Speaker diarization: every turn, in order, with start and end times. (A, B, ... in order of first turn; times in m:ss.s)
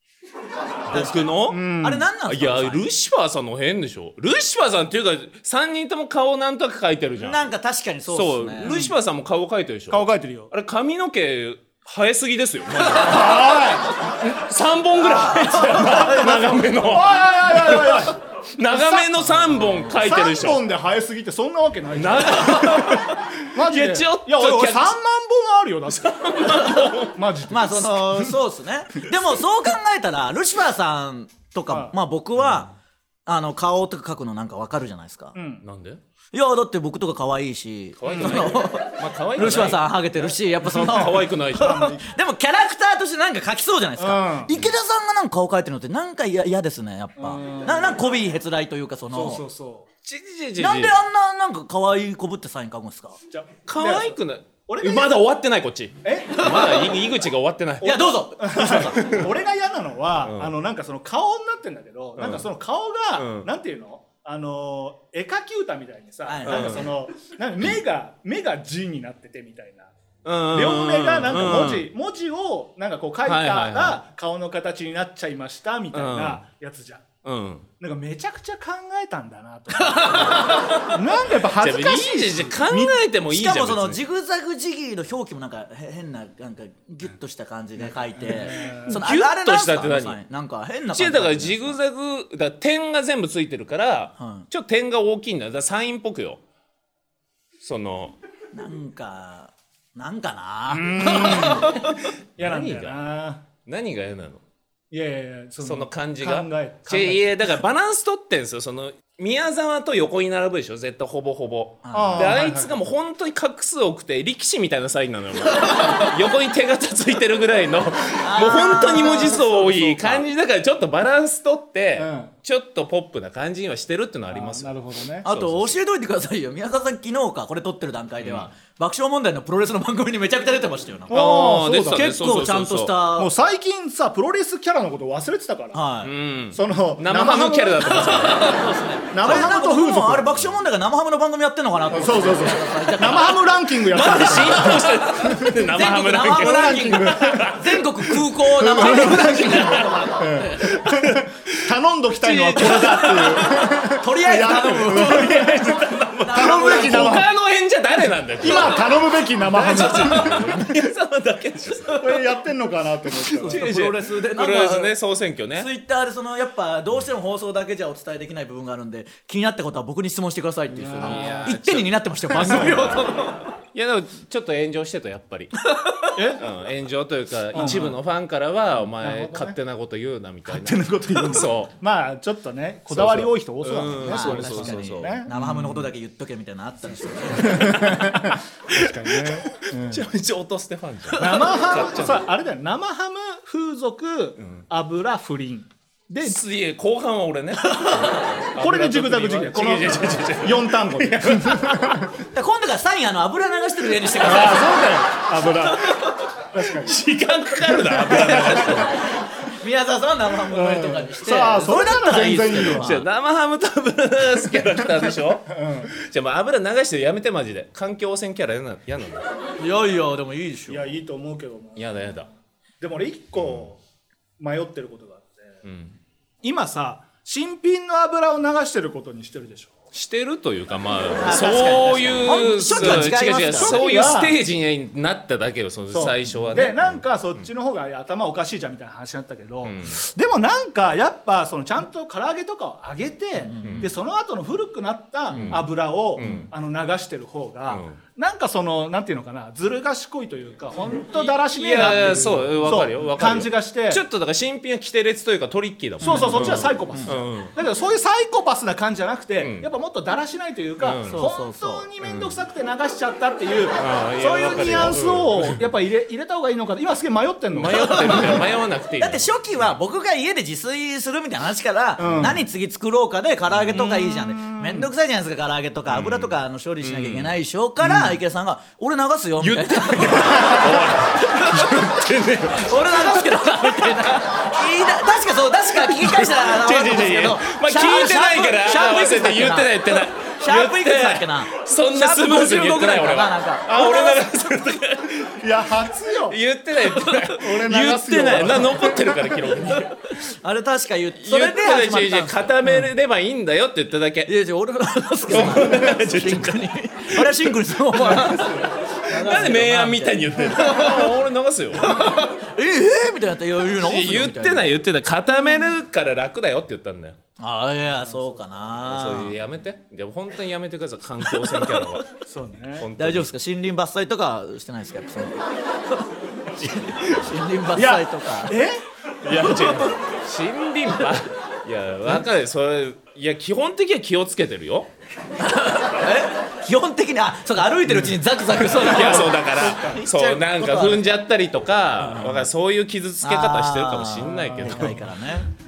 0:00.9-0:01.7 A
0:00.9-0:01.2 B
0:00.9-0:02.1 C
0:01.8-0:02.9 B
0:02.3-0:07.5 A
0:07.2-0:08.8 B
0:08.1-0:20.7 A
0:08.6-0:09.0 C
0:09.9-0:10.5 C
0:12.8-0:14.1 C
0:15.0-0:16.6 B
0:15.6-0:18.2 C
0:18.7-0:28.4 C
0:21.9-0:25.0 A
0:25.9-0:27.2 A
0:27.5-0:32.7 B
0:31.7-0:31.9 C
0:33.3-0:35.4 B
0:35.4-0:35.6 C
0:35.6-0:36.0 A
0:36.3-0:49.4 B
0:38.0-0:42.0 A
0:38.1-0:38.4 C
0:41.6-0:42.0 C
0:44.0-0:44.5 C
0:47.2-0:48.0 C
0:49.1-0:49.9 C
0:50.0-0:51.0 A
0:50.6-0:53.2 B
0:53.3-0:55.1 C
0:53.7-0:58.1 A
0:56.0-0:56.9 C
0:56.4-0:56.8 B
0:57.8-0:59.0 B
0:57.8-1:09.9 C
0:58.6-0:59.3 A
1:00.2-1:00.5 A
1:02.2-1:02.5 A
1:03.2-1:03.5 A
1:06.3-1:06.9 B
1:06.4-1:06.9 A
1:10.2-1:11.9 A
1:10.5-1:17.0 C
1:13.2-1:14.0 A
1:15.9-1:16.4 A
1:17.2-1:17.7 A
1:17.8-1:23.0 C
1:19.8-1:21.0 B
1:21.4-1:24.0 A
1:23.3-1:31.8 B
1:28.2-1:29.0 C
1:28.8-1:30.2 A
1:30.9-1:36.4 A
1:34.2-1:34.5 B
1:37.6-1:38.2 A
1:38.5-1:42.0 B
1:40.7-1:43.4 C
1:42.4-1:43.0 A
1:43.7-1:44.4 A
1:44.9-1:47.3 C
1:45.6-2:05.8 A
1:51.8-1:52.4 B
1:51.9-1:52.7 C
1:58.2-2:00.2 B
1:59.2-1:59.6 C
2:02.0-2:02.3 C
2:04.3-2:05.3 C
2:05.2-2:11.3 B
2:08.2-2:08.5 A
2:11.1-2:12.1 C
2:11.1-2:13.0 A
2:11.9-2:13.3 B
2:13.2-2:15.8 C
2:15.7-2:16.1 B
2:16.0-2:18.6 A
2:16.5-2:18.6 C
2:18.0-2:23.5 B
2:19.1-2:20.4 C
2:21.9-2:25.6 C
2:23.7-2:29.9 A
2:24.5-2:30.9 B
2:26.3-2:27.6 C
2:28.6-2:37.3 C
2:30.6-2:31.3 A
2:32.2-2:33.6 A
2:32.3-2:37.2 B
2:34.9-2:42.3 A
2:38.4-2:40.7 C
2:41.9-2:43.8 C
2:43.3-2:45.0 B
2:43.4-2:45.7 A
2:45.6-2:53.5 B
2:50.7-2:51.5 C
2:51.0-2:53.2 A
2:53.7-2:55.6 A
2:55.7-2:56.2 B
2:56.2-2:56.4 C
2:56.4-3:01.7 A
2:57.5-2:58.0 C
2:57.6-2:57.9 B
2:59.0-2:59.6 C
3:00.5-3:05.9 C
3:02.9-3:05.3 A
3:04.0-3:08.0 B
3:07.4-3:10.0 C
3:07.7-3:12.3 A
3:11.2-3:16.4 C
3:14.4-3:14.6 A
3:16.2-3:22.0 A
3:17.7-3:18.2 B
3:18.6-3:22.2 C
3:22.3-3:25.0 B
3:24.2-3:27.0 C
3:26.7-3:29.1 A
3:27.7-3:28.9 C
3:28.1-3:33.1 B
3:30.5-3:33.0 C
3:32.5-3:39.3 A
3:35.5-3:35.9 C
3:39.6-3:40.9 B
3:40.7-3:42.0 C
3:41.8-3:42.3 A
3:42.8-3:43.8 C
3:43.4-3:43.7 A
3:44.4-3:45.6 C
3:45.6-3:46.0 A
3:46.4-3:49.7 C
3:49.9-3:57.5 A
3:51.2-3:53.8 B
3:52.6-3:54.4 C
3:55.9-4:14.0 C
3:59.6-4:00.0 A
4:03.4-4:03.9 B
4:03.6-4:03.9 A
4:05.3-4:05.6 B
4:05.3-4:06.5 A
4:06.2-4:06.5 B
4:07.7-4:08.0 A
4:11.2-4:17.5 A
4:16.0-4:28.4 C
4:16.0-4:17.2 B
4:19.4-4:19.7 A
4:20.8-4:21.2 A
4:21.1-4:21.9 B
4:22.0-4:22.4 A
4:23.8-4:25.7 A
4:27.5-4:29.3 A
4:27.7-4:28.4 B
4:29.0-4:54.3 B
4:32.0-4:32.4 C
4:32.1-4:32.4 A
4:33.5-4:33.8 A
4:33.7-4:34.9 C
4:35.9-4:37.3 A
4:37.8-4:38.2 C
4:39.4-4:43.2 A
4:45.7-4:55.4 A
4:55.4-4:56.4 C
4:56.1-5:00.0 A
4:56.8-4:57.3 B
4:57.3-4:59.4 C
4:59.7-5:02.8 B
5:01.2-5:04.3 A
5:04.3-5:11.1 B
5:05.3-5:08.3 A
5:07.9-5:08.7 C
5:09.0-5:12.2 A
5:11.8-5:14.7 B
5:13.8-5:17.2 A
5:17.4-5:19.4 B
5:18.0-5:18.4 C
5:18.8-5:22.1 A
5:22.3-5:22.9 C
5:22.8-5:23.3 A
5:23.0-5:26.1 B
5:26.6-5:28.6 B
5:26.6-5:27.2 A
5:27.8-5:28.8 C
5:29.2-5:34.9 A
5:29.4-5:29.9 B
5:35.4-5:41.1 B
5:38.6-5:45.1 A
5:38.7-5:40.0 C
5:42.0-5:42.5 B
5:43.2-5:45.5 B
5:44.3-5:45.0 C